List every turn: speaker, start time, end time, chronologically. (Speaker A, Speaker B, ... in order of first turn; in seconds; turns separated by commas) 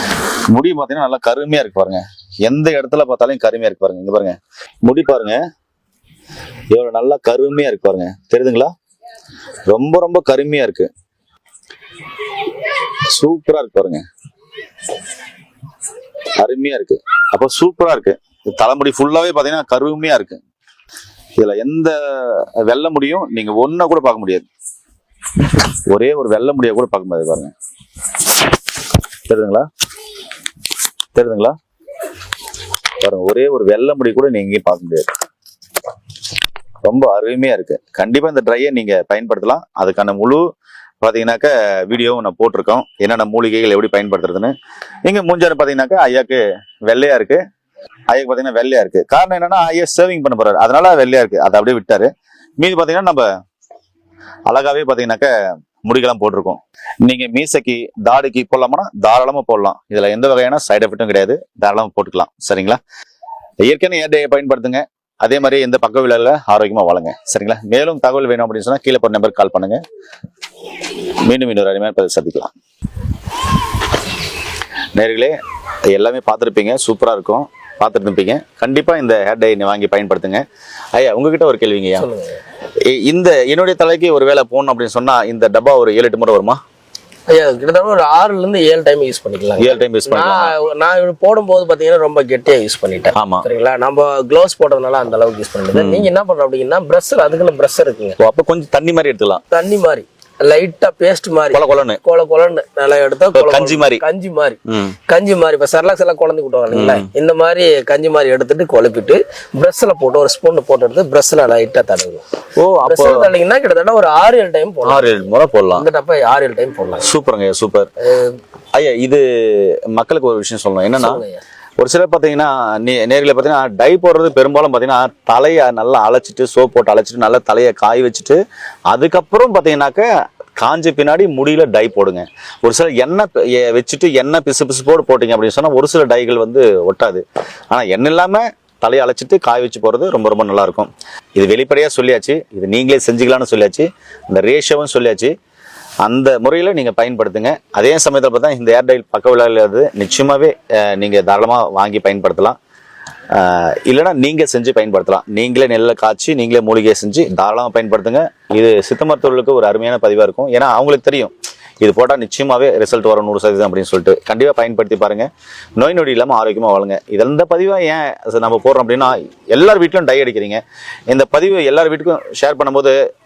Speaker A: 0.5-5.4, Speaker A: 6.7-8.7, Speaker A: 9.7-10.9, Speaker A: 13.1-14.0, Speaker A: 16.4-20.4, Speaker A: 21.4-24.4, Speaker A: 25.9-27.5, Speaker A: 29.3-29.7, Speaker A: 31.1-31.6, Speaker A: 33.0-35.1, Speaker A: 36.8-40.4, Speaker A: 41.0-44.5, Speaker A: 45.0-47.4, Speaker A: 48.1-53.3, Speaker A: 54.5-62.8, Speaker A: 63.6-69.8, Speaker A: 71.2-72.5, Speaker A: 75.0-75.4, Speaker A: 75.9-80.4, Speaker A: 81.0-82.1, Speaker B: 82.0-82.4, Speaker A: 82.8-86.6, Speaker B: 87.3-98.2, Speaker A: 89.6-90.5, Speaker A: 93.2-93.5, Speaker A: 95.7-96.1, Speaker A: 98.2-99.4, Speaker B: 99.5-112.2, Speaker A: 101.5-102.0, Speaker A: 103.3-104.0, Speaker A: 104.7-105.0, Speaker A: 106.7-107.1, Speaker A: 112.6-113.3, Speaker B: 112.8-115.2, Speaker A: 114.8-115.8, Speaker B: 115.8-117.1, Speaker A: 117.0-117.9, Speaker B: 118.1-118.4, Speaker A: 118.7-121.2, Speaker B: 121.0-121.4, Speaker A: 121.8-128.4, Speaker A: 128.9-145.3, Speaker A: 146.0-152.6, Speaker A: 153.3-173.0